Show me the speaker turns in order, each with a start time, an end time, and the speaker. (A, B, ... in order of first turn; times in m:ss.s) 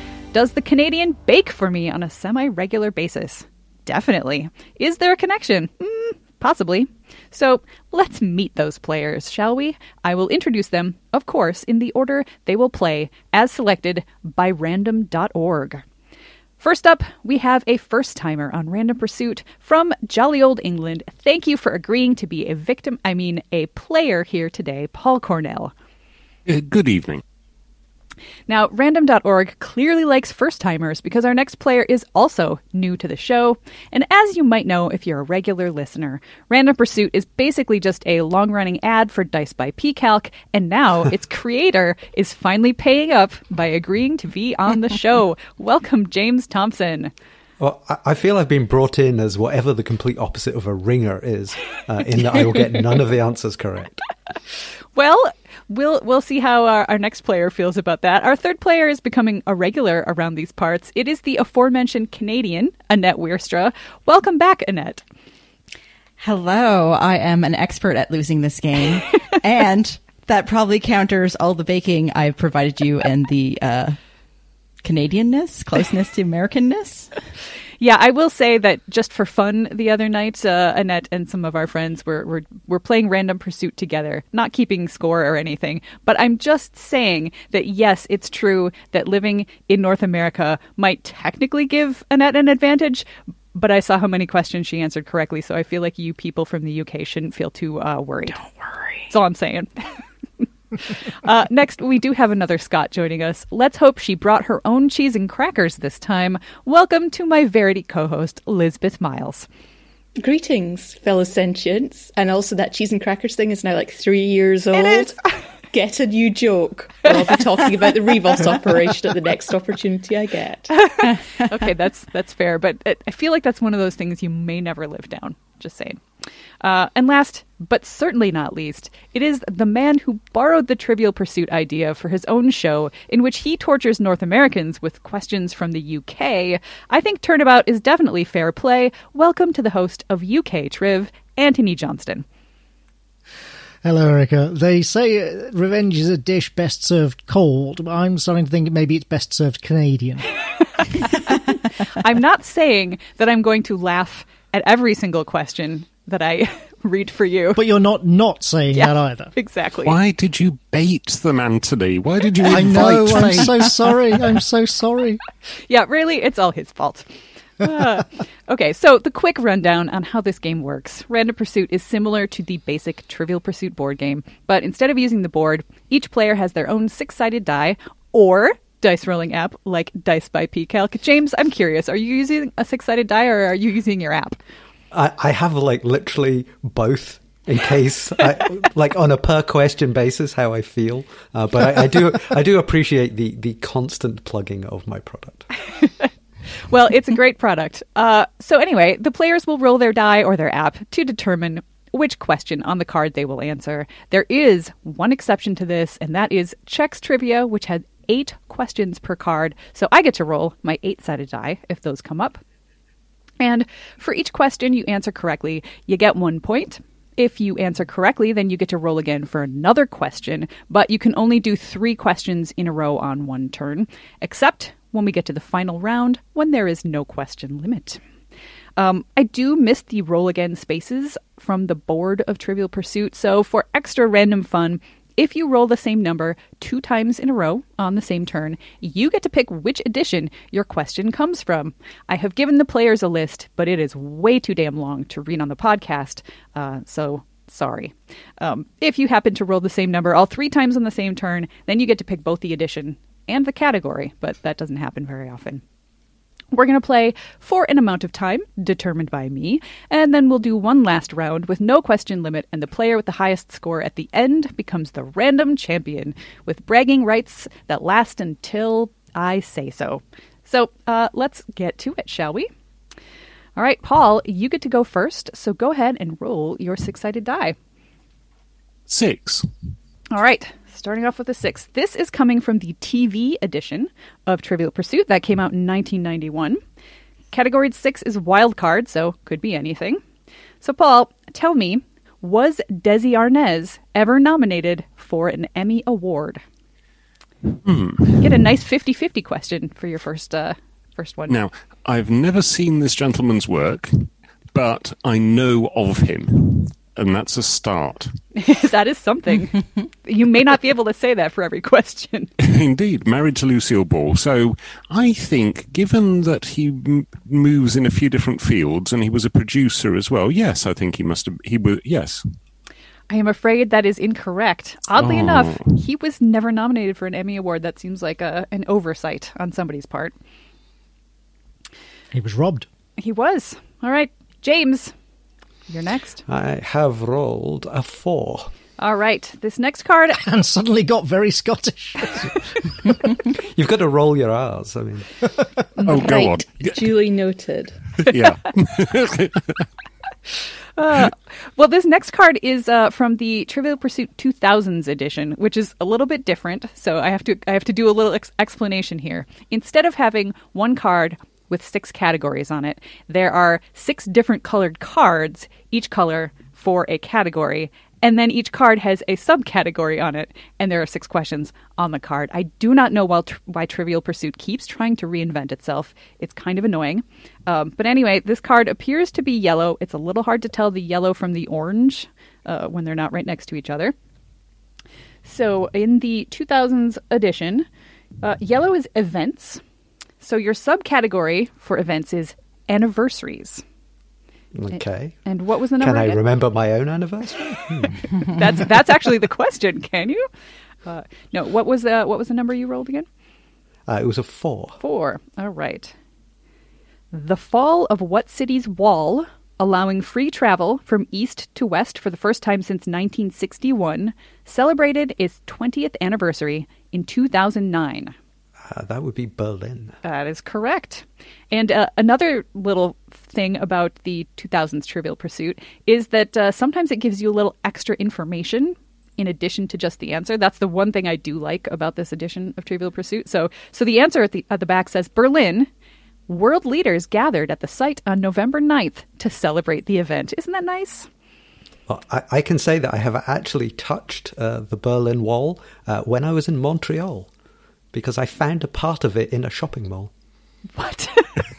0:00.3-0:15.8 A
0:16.6-0:25.7 A
0:26.5-0:27.2 B
0:28.5-0:47.1 A
0:47.6-0:54.0 C
0:55.0-1:05.0 A
1:06.2-1:14.0 D
1:14.8-1:17.1 D
1:17.8-1:38.5 A
1:39.0-1:39.9 A
1:40.8-1:49.5 A
1:50.2-2:00.8 E
2:00.7-2:06.0 A
2:06.6-2:22.2 A
2:23.8-2:30.3 F
2:31.8-2:37.6 A
2:37.6-2:39.3 F
2:38.7-2:40.0 A
2:39.8-2:43.6 B
2:42.4-2:45.2 F
2:45.7-3:04.4 A
3:04.9-3:15.5 C
3:15.8-3:16.1 A
3:16.7-3:32.4 A
3:33.4-3:48.0 A
3:48.8-4:15.6 A
4:16.5-4:32.5 A
4:33.6-4:37.6 A
4:38.9-4:39.5 B
4:40.1-4:46.6 A
4:47.3-4:50.0 A
4:50.6-4:56.4 A
4:57.6-4:58.3 B
4:58.2-5:01.4 A
5:01.3-5:08.1 B
5:08.4-5:12.3 A
5:12.4-5:22.2 B
5:23.1-5:30.2 A
5:25.0-5:25.8 B
5:32.1-5:32.7 F
5:33.0-5:34.9 A
5:35.7-5:36.2 A
5:36.3-5:38.5 C
5:38.8-5:40.2 A
5:40.2-5:42.9 F
5:43.3-5:45.2 C
5:45.8-5:47.9 E
5:45.8-5:47.0 B
5:48.0-5:49.6 B
5:50.8-6:23.9 A
6:25.2-6:27.7 A
6:28.2-6:29.6 A
6:30.2-6:33.6 A
6:34.6-6:35.3 C
6:34.7-6:36.2 A
6:35.8-6:38.1 C
6:38.2-6:40.3 A
6:40.9-6:43.1 A
6:43.9-6:44.8 C
6:44.8-6:45.9 A
6:47.1-6:58.1 A
6:58.6-7:00.0 C
7:00.0-7:15.7 A
7:16.3-7:21.1 A
7:21.9-7:27.3 C
7:27.9-7:30.1 C
7:30.8-7:31.3 A